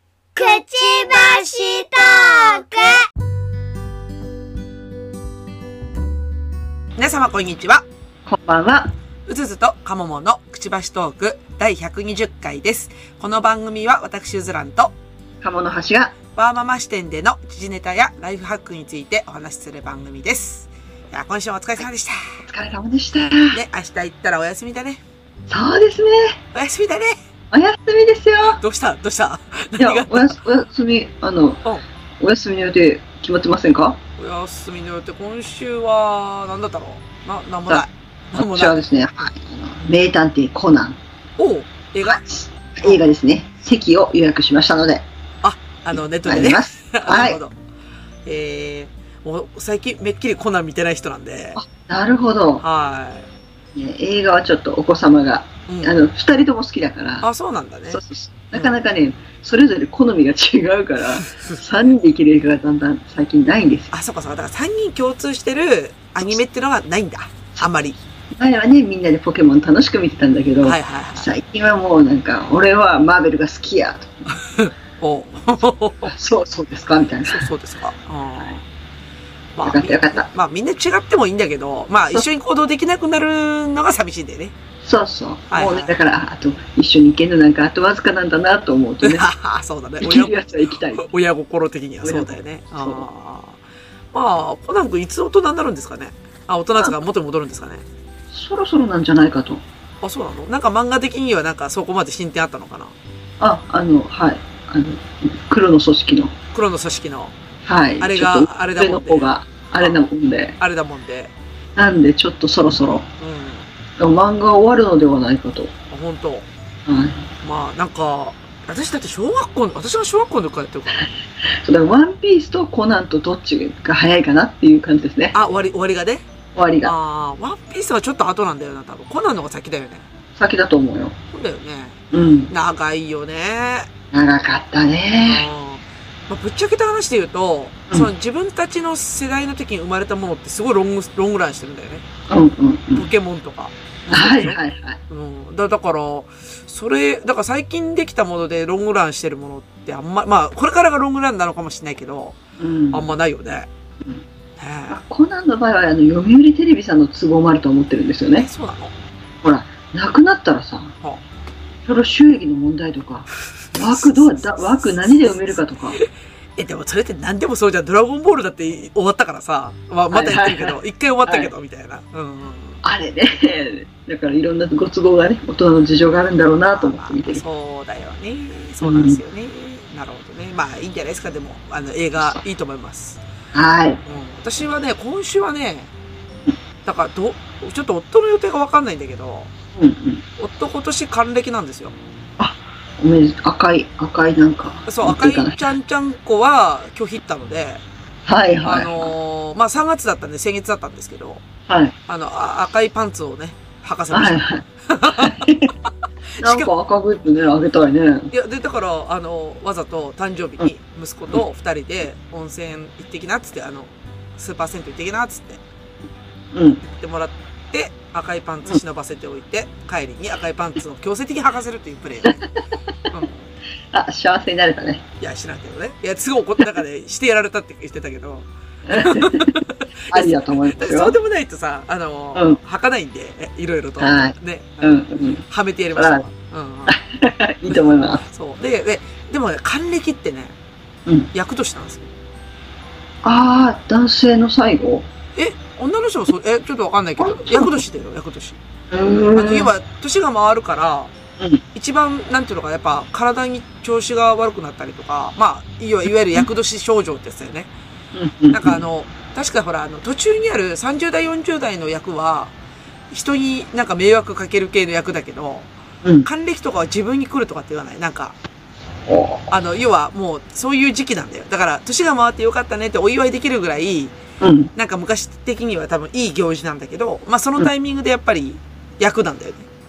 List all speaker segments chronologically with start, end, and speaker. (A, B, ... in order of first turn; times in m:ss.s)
0:00.3-0:03.0 A
0:07.0-0:07.8 B
0:08.3-0:08.9 C
0:09.3-0:14.9 B
0:15.4-0:16.1 C
0:16.3-0:22.4 B
0:22.4-0:23.6 C
0:23.5-0:25.0 B
0:25.5-0:26.4 C
0:26.5-0:27.2 B
0:27.5-0:28.6 C
0:28.4-0:30.4 B
0:29.8-0:31.6 C
0:32.2-0:34.0 C
0:34.2-0:38.8 B
0:37.7-0:41.0 C
0:41.4-0:42.2 B
0:42.0-0:45.0 C
0:45.4-0:47.5 B
0:46.2-0:47.4 C
0:48.2-0:51.6 B
0:51.6-0:52.6 C
0:52.6-0:53.3 B
0:53.7-0:57.3 C
0:55.7-0:56.0 B
0:57.2-0:58.0 B
0:57.9-1:03.9 C
1:03.9-1:08.0 B
1:08.3-1:14.3 C
1:10.6-1:11.3 B
1:14.4-1:16.1 B
1:16.0-1:17.5 C
1:17.3-1:18.6 B
1:19.5-1:24.5 B
1:19.6-1:20.3 C
1:24.8-1:29.3 C
1:25.5-1:25.9 B
1:29.0-1:30.3 B
1:30.0-1:31.1 C
1:31.0-1:33.6 B
1:32.0-1:33.0 C
1:34.1-1:37.8 B
1:38.3-1:39.6 C
1:40.0-1:42.9 B
1:43.4-1:46.3 C
1:46.5-1:47.3 B
1:47.6-1:50.6 C
1:48.0-1:50.0 B
1:50.6-1:51.3 B
1:51.8-1:53.1 C
1:53.2-1:53.7 B
1:54.0-1:55.7 C
1:55.9-1:56.5 B
1:56.9-1:57.3 C
1:57.4-2:01.0 B
2:01.6-2:05.3 C
2:05.3-2:06.2 B
2:06.5-2:06.9 C
2:06.8-2:10.1 B
2:10.4-2:11.2 C
2:11.3-2:13.9 B
2:12.1-2:12.5 C
2:14.1-2:15.4 C
2:15.2-2:22.0 B
2:22.3-2:23.0 C
2:22.9-2:32.4 B
2:24.1-2:25.0 C
2:32.6-2:33.0 C
2:32.9-2:33.7 B
2:34.6-2:35.0 B
2:34.9-2:38.5 C
2:38.4-2:38.9 B
2:39.4-2:40.9 C
2:41.8-2:46.0 C
2:43.7-2:46.0 B
2:46.6-2:52.8 B
2:50.1-2:51.5 C
2:52.8-2:57.4 C
2:56.7-3:03.2 B
2:58.8-2:59.2 C
3:03.5-3:04.0 C
3:04.0-3:05.9 B
3:06.8-3:09.5 B
3:09.8-3:10.2 C
3:10.4-3:11.9 B
3:12.4-3:15.7 C
3:14.9-3:17.8 B
3:18.3-3:19.1 C
3:18.6-3:21.4 B
3:21.7-3:21.9 C
3:22.1-3:25.5 B
3:24.1-3:25.7 C
3:26.4-3:26.7 B
3:26.4-3:28.3 C
3:28.3-3:35.6 B
3:36.5-3:36.8 C
3:36.8-3:42.4 B
3:43.1-3:43.5 B
3:43.9-3:45.0 C
3:45.2-3:57.0 B
3:48.8-3:49.6 C
3:50.1-3:51.2 C
3:54.0-3:55.4 C
3:56.0-3:56.2 C
3:56.9-3:58.2 C
3:57.7-4:00.5 B
4:01.3-4:02.1 B
4:03.2-4:05.1 C
4:05.4-4:08.6 B
4:07.2-4:07.8 C
4:08.9-4:09.7 C
4:09.3-4:11.1 B
4:11.7-4:17.7 B
4:18.1-4:18.8 C
4:18.5-4:22.5 B
4:23.1-4:25.7 B
4:26.2-4:28.3 B
4:29.1-4:29.4 C
4:29.5-4:34.1 B
4:34.4-4:34.7 C
4:34.8-4:39.7 B